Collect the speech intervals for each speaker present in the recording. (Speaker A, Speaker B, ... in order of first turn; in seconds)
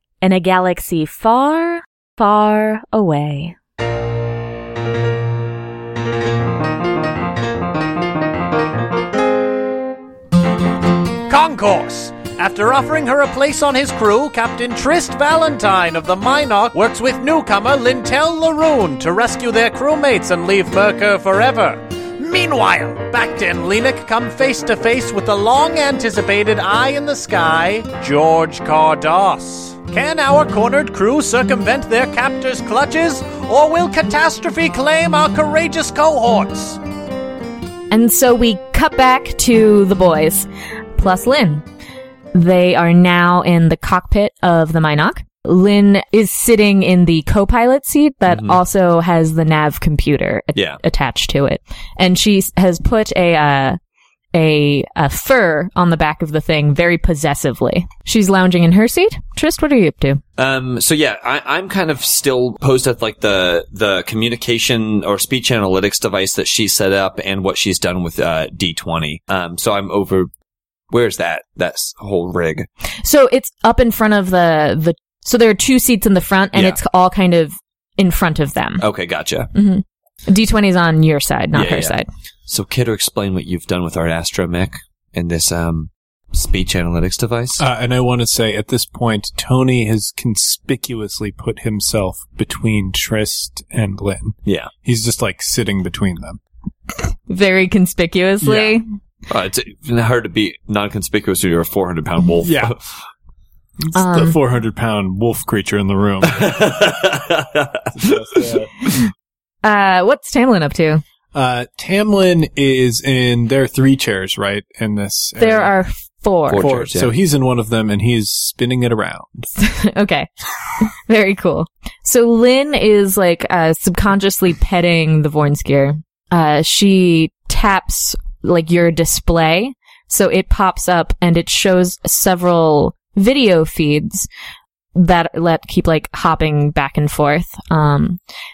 Speaker A: 0.2-3.6, 37.9-41.6, 42.3-53.8, 54.3-60.2, 72.9-78.8, 79.5-82.1, 97.3-98.8, 103.9-104.4, 109.6-111.0, 115.4-116.6, 119.6-120.3, 120.8-134.3, 134.9-138.2
Speaker B: 11.3-36.8
Speaker C: 48.3-48.6, 50.5-50.8, 60.4-70.3, 70.9-72.7, 78.8-79.5, 81.5-82.0, 82.5-87.6, 94.5-94.7, 99.3-102.9, 106.3-108.9, 116.5-117.1
Speaker D: 87.6-96.4, 102.4-102.7, 103.8-106.5, 108.0-108.7, 111.3-115.7, 116.6-119.5